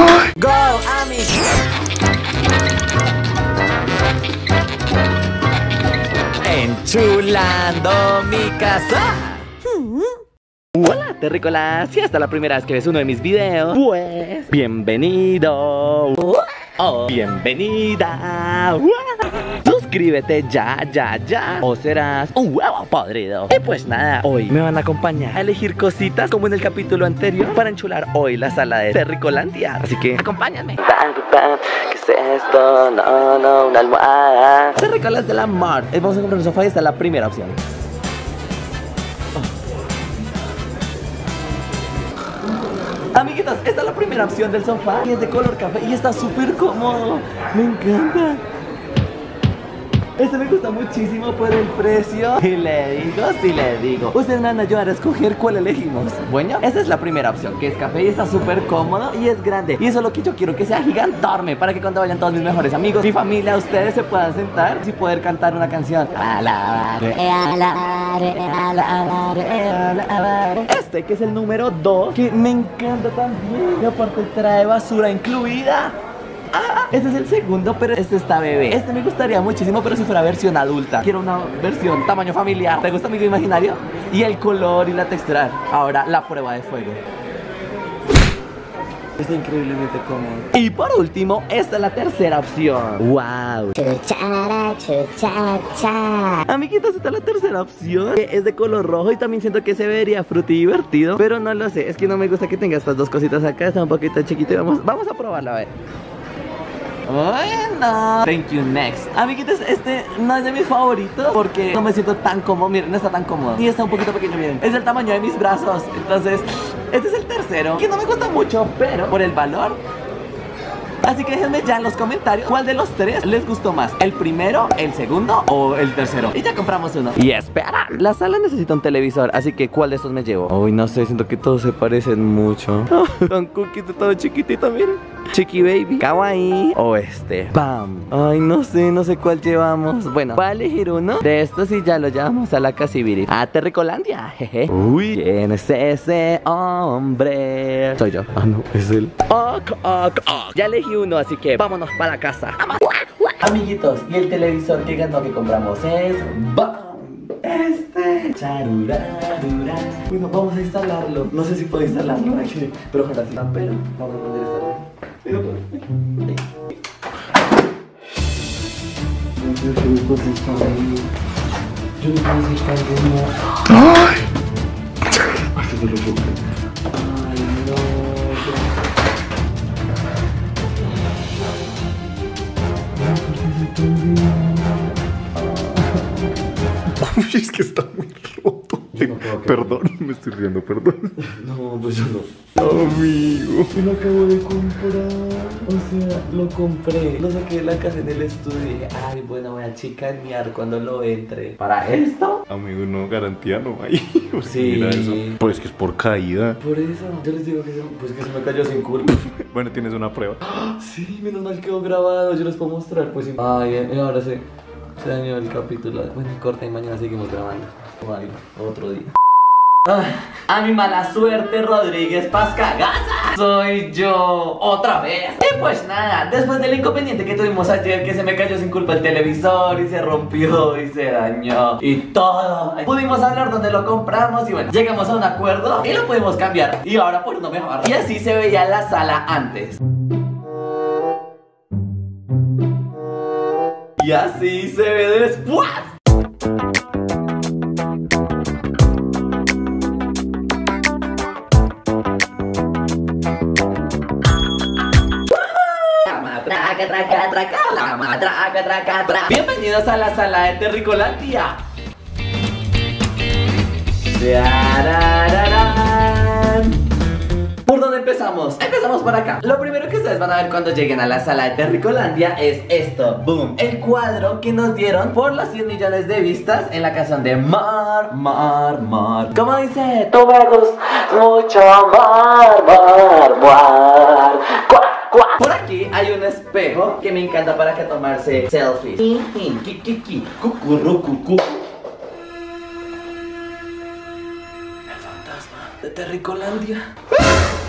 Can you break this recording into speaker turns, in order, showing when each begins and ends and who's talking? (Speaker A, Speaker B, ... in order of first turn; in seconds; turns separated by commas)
Speaker A: 0.2-1.5, Speaker A: 6.4-10.2, Speaker A: 10.7-37.6, Speaker A: 43.1-48.4, Speaker A: 50.2-76.0, Speaker A: 76.5-87.0, Speaker A: 89.2-93.8, Speaker B: 93.8-96.4, Speaker A: 96.4-105.7, Speaker A: 107.0-119.8, Speaker A: 121.0-166.6, Speaker A: 169.3-171.1, Speaker A: 172.0-174.1, Speaker A: 175.2-178.7, Speaker A: 182.9-186.0, Speaker C: 186.9-191.2, Speaker A: 188.9-189.8, Speaker A: 191.2-192.7, Speaker C: 192.6-193.7, Speaker A: 193.7-202.5, Speaker C: 202.5-206.6, Speaker A: 204.4-205.4, Speaker A: 206.6-209.5, Speaker C: 209.3-210.4, Speaker A: 210.4-214.4, Speaker A: 215.0-219.1, Speaker A: 219.8-239.8, Speaker A: 244.0-245.9, Speaker A: 255.1-261.6, Speaker A: 264.0-266.8, Speaker A: 267.6-291.6, Speaker A: 294.9-296.9